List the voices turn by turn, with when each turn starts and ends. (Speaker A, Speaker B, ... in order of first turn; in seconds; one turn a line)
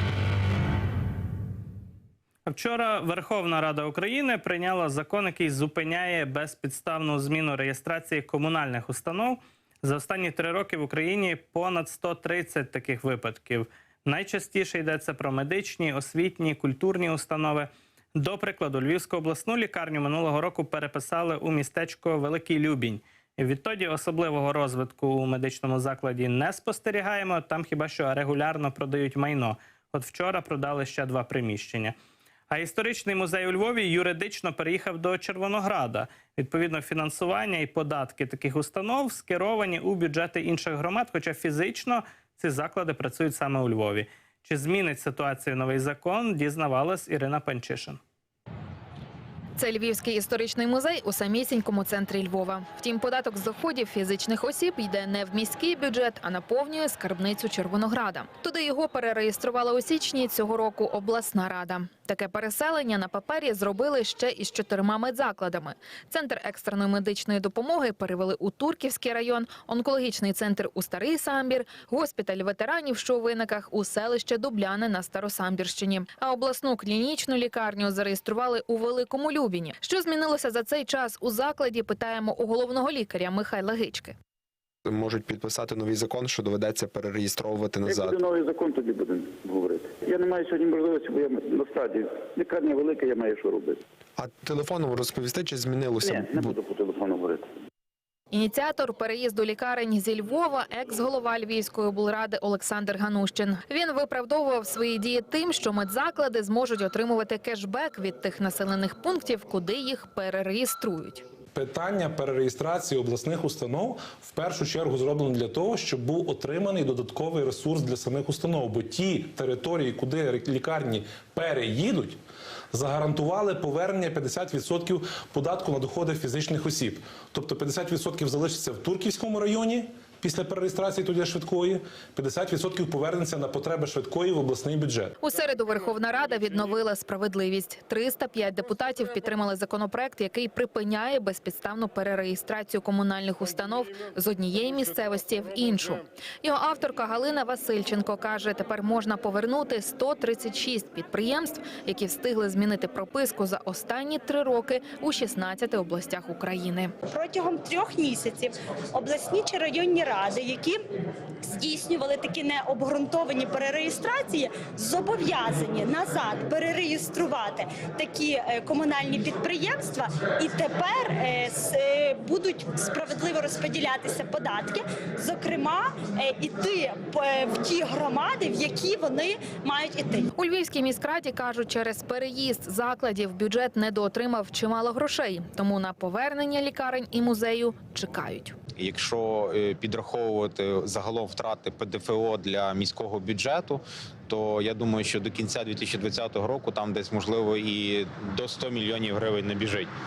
Speaker A: 2.5-31.9
Speaker A: 32.5-48.0
Speaker B: 49.6-84.1
Speaker C: 84.8-88.1
Speaker D: 87.8-93.8
Speaker C: 94.2-96.5
Speaker D: 96.0-97.5
Speaker B: 98.3-111.2
Speaker E: 111.5-122.2
Speaker E: 122.7-135.2
Speaker B: 135.2-156.9
Speaker F: 157.1-160.8
Speaker F: 161.4-180.3
Speaker B: 180.3-188.6
Speaker G: 188.7-199.9